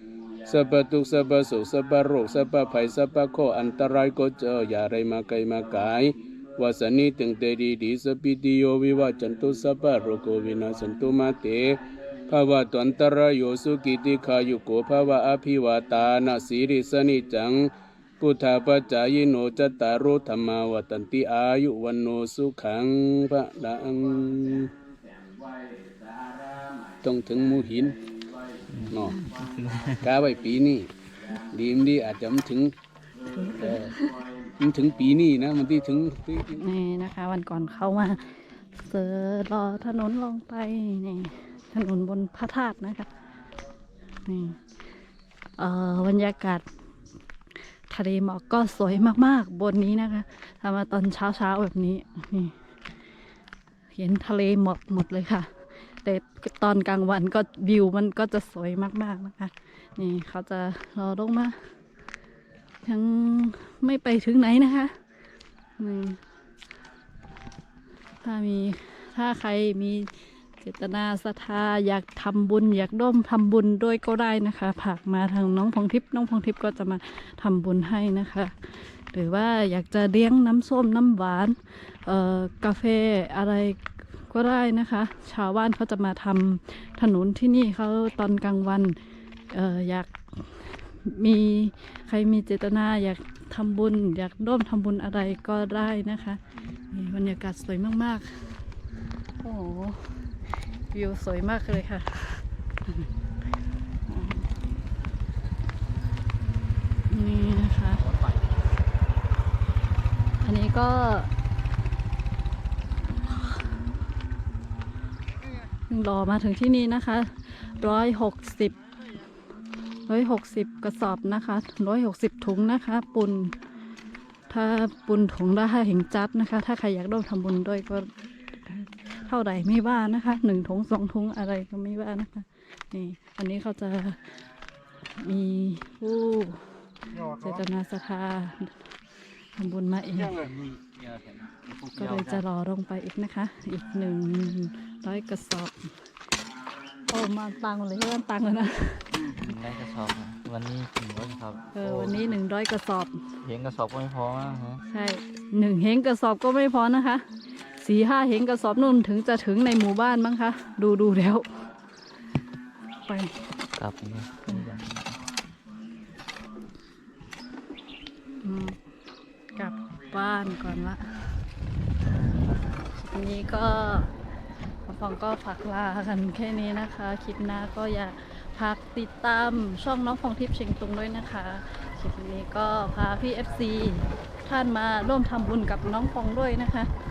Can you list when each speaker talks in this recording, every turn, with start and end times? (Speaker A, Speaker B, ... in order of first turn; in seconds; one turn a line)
Speaker A: 0.4-24.7
Speaker A: 27.0-28.0
Speaker B: 28.7-30.1
Speaker A: 28.9-29.2
Speaker A: 30.0-32.7
Speaker C: 33.3-34.2
Speaker A: 33.5-33.9
Speaker A: 34.6-36.6
Speaker C: 36.6-43.1
Speaker C: 44.2-44.6
Speaker C: 45.6-46.6
Speaker C: 47.9-52.5
Speaker C: 53.9-55.5
Speaker C: 56.0-61.6
Speaker C: 62.8-65.0
Speaker C: 65.8-66.2
Speaker C: 68.2-88.9
Speaker C: 89.5-96.4
Speaker C: 96.9-98.4
Speaker C: 99.4-100.2
Speaker C: 100.9-103.0
Speaker C: 104.0-104.5
Speaker C: 107.1-108.0
Speaker B: 108.0-108.7
Speaker C: 110.4-111.3
Speaker C: 115.9-118.8
Speaker C: 120.1-123.5
Speaker C: 124.5-128.1
Speaker C: 128.7-134.3
Speaker C: 135.1-136.7
Speaker C: 137.2-138.8
Speaker C: 139.6-140.4
Speaker B: 140.3-142.4
Speaker C: 141.9-145.9
Speaker C: 147.1-149.3
Speaker B: 149.1-152.3
Speaker C: 151.7-153.2
Speaker B: 153.4-154.8
Speaker C: 154.9-157.2
Speaker C: 157.8-161.5
Speaker C: 163.1-163.4
Speaker B: 163.8-165.2
Speaker C: 164.5-164.7
Speaker C: 168.4-168.8
Speaker C: 169.5-171.1
Speaker C: 172.9-174.1
Speaker C: 174.8-186.9